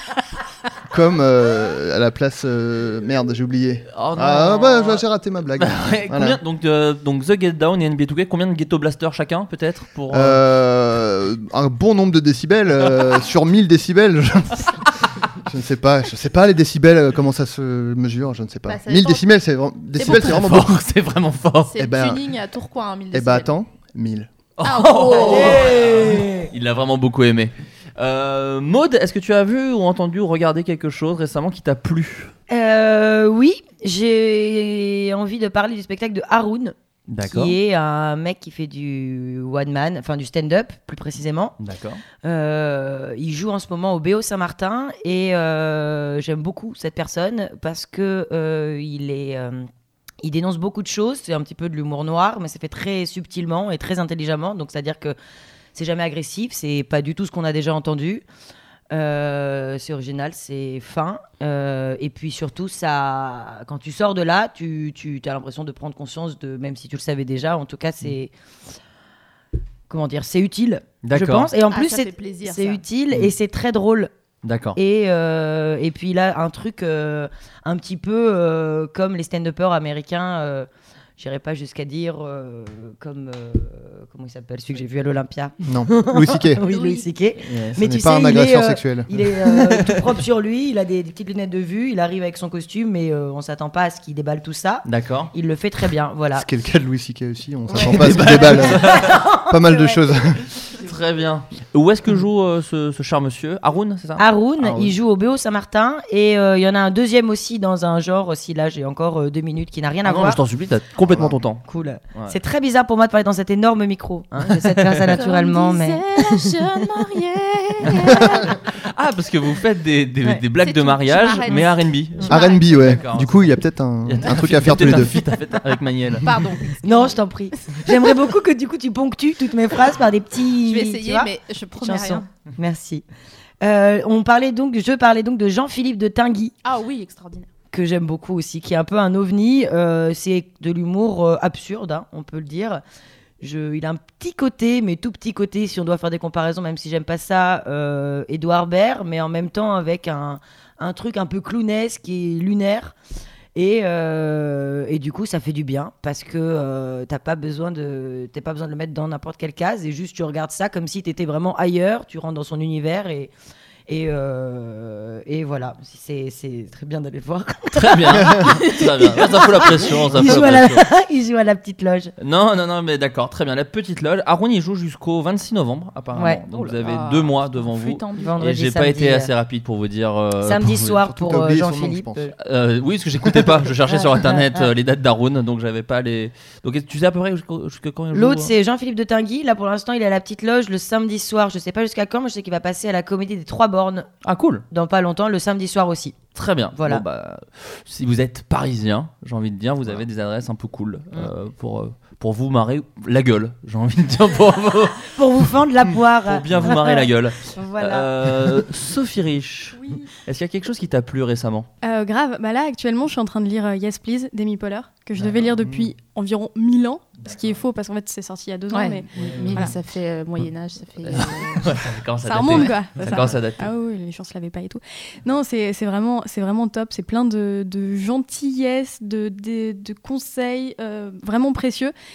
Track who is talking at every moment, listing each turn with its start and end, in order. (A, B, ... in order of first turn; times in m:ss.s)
0:00.9-0:06.4 A
0:03.9-0:05.0 B
0:05.6-0:10.4 B
0:10.1-0:20.8 A
0:18.7-0:19.2 C
0:20.0-0:20.4 C
0:20.0-0:21.7 B
0:21.7-0:23.5 C
0:21.8-0:22.2 A
0:23.1-0:24.3 A
0:24.6-0:32.3 B
0:24.6-0:25.8 C
0:25.1-0:26.5 D
0:32.5-0:41.6 D
0:37.1-0:37.6 B
0:41.6-0:42.0 B
0:42.2-0:49.7 D
0:50.2-0:55.2 D
0:55.8-0:58.2 D
0:58.9-1:08.3 D
1:09.9-1:14.1 D
1:11.0-1:11.5 B
1:11.6-1:12.8 C
1:14.4-1:14.8 B
1:14.8-1:36.5 D
1:25.6-1:26.6 A
1:26.6-1:27.1 C
1:27.4-1:27.8 B
1:27.8-1:29.1 A
1:29.5-1:30.1 B
1:34.8-1:35.3 B
1:36.4-1:40.4 A
1:37.7-1:40.0 D
1:37.8-1:39.3 B
1:40.6-1:45.0 B
1:44.2-1:50.4 D
1:50.0-1:52.4 B
1:51.1-1:51.4 A
1:51.7-1:56.5 D
1:54.4-1:55.1 B
1:55.1-1:58.6 C
1:58.7-2:03.5 B
2:00.6-2:01.7 C
2:02.2-2:02.8 C
2:02.2-2:05.2 A
2:04.0-2:06.4 B
2:06.2-2:07.2 C
2:06.8-2:13.0 D
2:10.7-2:12.2 C
2:13.6-2:16.6 D
2:16.6-2:17.5 C
2:17.7-2:22.8 D
2:23.4-2:33.0 D
2:33.6-2:43.3 D
2:43.9-2:52.1 D
2:47.7-2:50.8 B
2:52.2-3:01.0 B
2:56.1-2:56.4 D
2:56.5-2:58.4 C
2:58.2-2:59.3 D
3:00.4-3:02.3 D
3:01.0-3:02.3 A
3:02.4-3:08.5 B
3:03.9-3:04.7 D
3:08.1-3:14.1 D
3:14.2-3:14.7 B
3:14.7-3:16.2 D
3:16.4-3:25.2 B
3:16.8-3:17.0 D
3:25.1-3:28.6 D
3:26.2-3:31.7 B
3:29.8-3:30.1 E
3:31.8-3:39.7 E
3:35.6-3:35.9 A
3:37.2-3:37.6 B
3:38.7-3:41.7 C
3:39.2-3:39.7 B
3:41.1-3:43.7 B
3:41.2-3:41.4 E
3:42.2-3:51.9 E